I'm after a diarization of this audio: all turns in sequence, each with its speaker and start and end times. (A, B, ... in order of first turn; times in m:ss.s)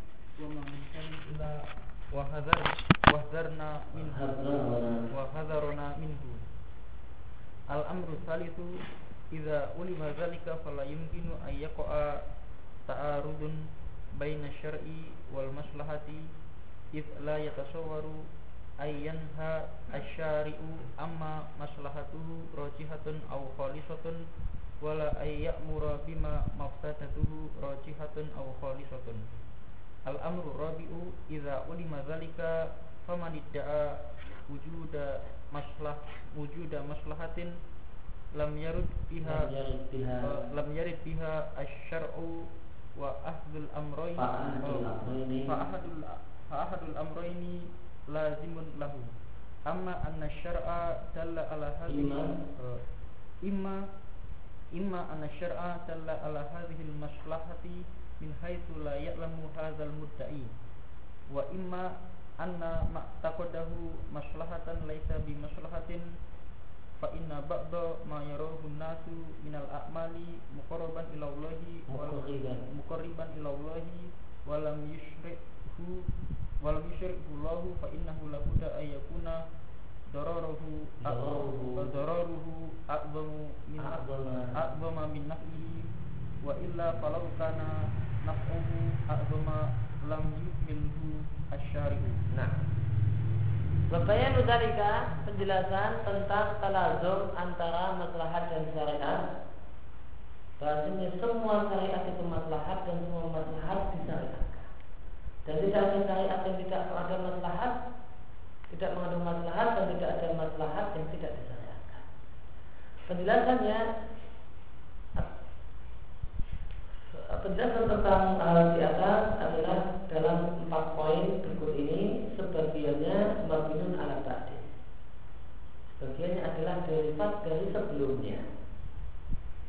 0:00.4-0:01.6 A
0:02.1-0:04.3 A
0:04.0-0:05.1 B
0:05.1-0:06.4 A
0:07.7-0:08.7 A
0:09.3-0:12.2 A
0:12.9-0:13.6 A
0:14.2-0:16.3 A
0:16.9-0:18.3 A
0:18.8-0:24.2 A
0:24.8-0:29.2 A
0:30.1-0:34.0 A
0:34.5-0:37.5 A
0:38.4-0:39.5 A
0:39.2-0:40.5 B
0:40.2-0:42.4 A
0:43.0-0:49.1 A
0:44.2-0:45.6 B
0:49.7-0:52.8 A
0:51.9-0:52.3 B
0:53.4-0:53.8 A
0:54.8-1:00.5 A
1:01.3-1:06.1 A
1:07.0-1:16.1 A
1:11.9-1:12.7 B
1:16.6-1:19.4 A
1:20.1-1:25.9 A
1:21.0-1:21.9 B
1:23.8-1:24.6 B
1:26.4-1:27.7 A
1:28.2-1:32.2 A
1:32.3-1:32.6 B
1:33.9-1:39.2 B
1:40.6-1:44.7 B
1:45.4-1:47.8 B
1:48.7-1:52.0 B
1:53.1-1:53.8 B
1:57.1-2:04.7 B
2:05.9-2:08.4 B